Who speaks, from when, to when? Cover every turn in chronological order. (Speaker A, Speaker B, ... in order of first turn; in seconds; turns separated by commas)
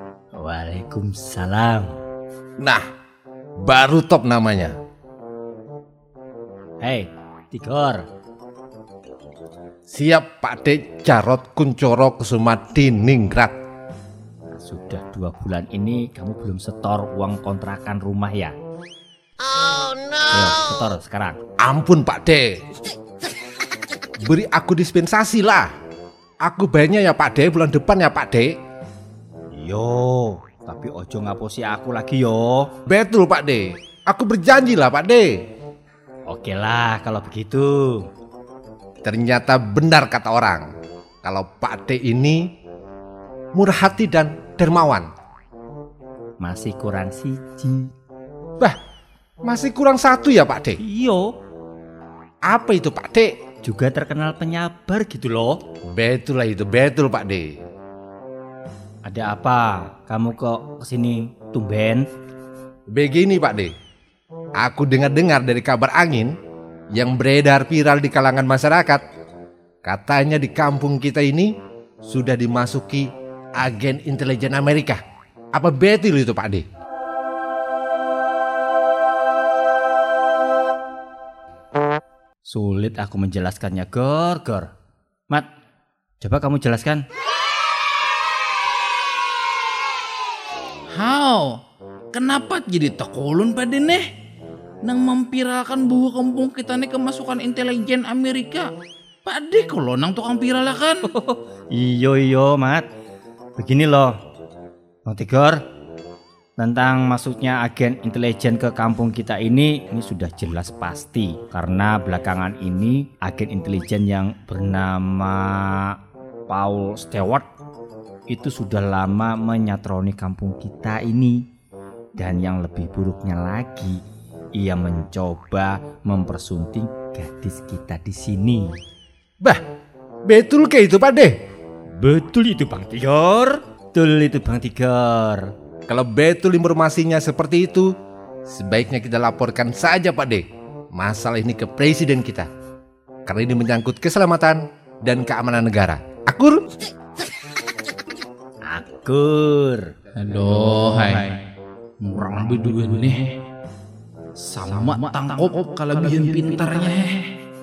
Speaker A: 0.4-2.0, Speaker B: 2.6-2.8, Speaker B: 3.6-4.8, Speaker A: 6.8-8.1, Speaker B: 9.9-13.6, Speaker A: 14.5-18.6, Speaker A: 20.1-21.4, Speaker B: 21.6-22.6, Speaker B: 24.2-25.7, Speaker B: 26.4-28.5, Speaker A: 29.5-32.7, Speaker B: 32.9-35.4, Speaker A: 36.3-38.1, Speaker B: 39.0-40.7, Speaker B: 41.2-42.5, Speaker B: 43.5-45.1, Speaker A: 46.4-47.9, Speaker B: 49.5-50.8, Speaker A: 50.8-51.4, Speaker B: 52.5-53.3, Speaker A: 53.6-55.6, Speaker B: 55.9-57.5, Speaker A: 59.0-62.1, Speaker B: 62.9-63.7, Speaker B: 64.6-66.3, Speaker B: 66.9-69.0, Speaker B: 69.8-71.5, Speaker B: 72.1-75.0, Speaker B: 75.5-76.7, Speaker A: 82.5-84.7, Speaker A: 86.2-87.0, Speaker C: 90.9-91.5, Speaker C: 92.1-94.1, Speaker C: 94.9-98.7, Speaker C: 99.2-101.1, Speaker A: 101.0-102.9, Speaker A: 103.6-104.1, Speaker A: 105.1-105.6, Speaker A: 106.6-116.0, Speaker A: 116.5-117.5, Speaker A: 118.3-121.4, Speaker A: 122.2-124.0, Speaker A: 124.6-128.8, Speaker B: 130.3-131.4, Speaker A: 132.0-135.5, Speaker B: 135.9-137.9, Speaker B: 138.5-142.5, Speaker B: 143.3-146.6, Speaker A: 148.7-149.9, Speaker C: 150.2-151.4, Speaker C: 152.0-153.3, Speaker C: 154.4-157.3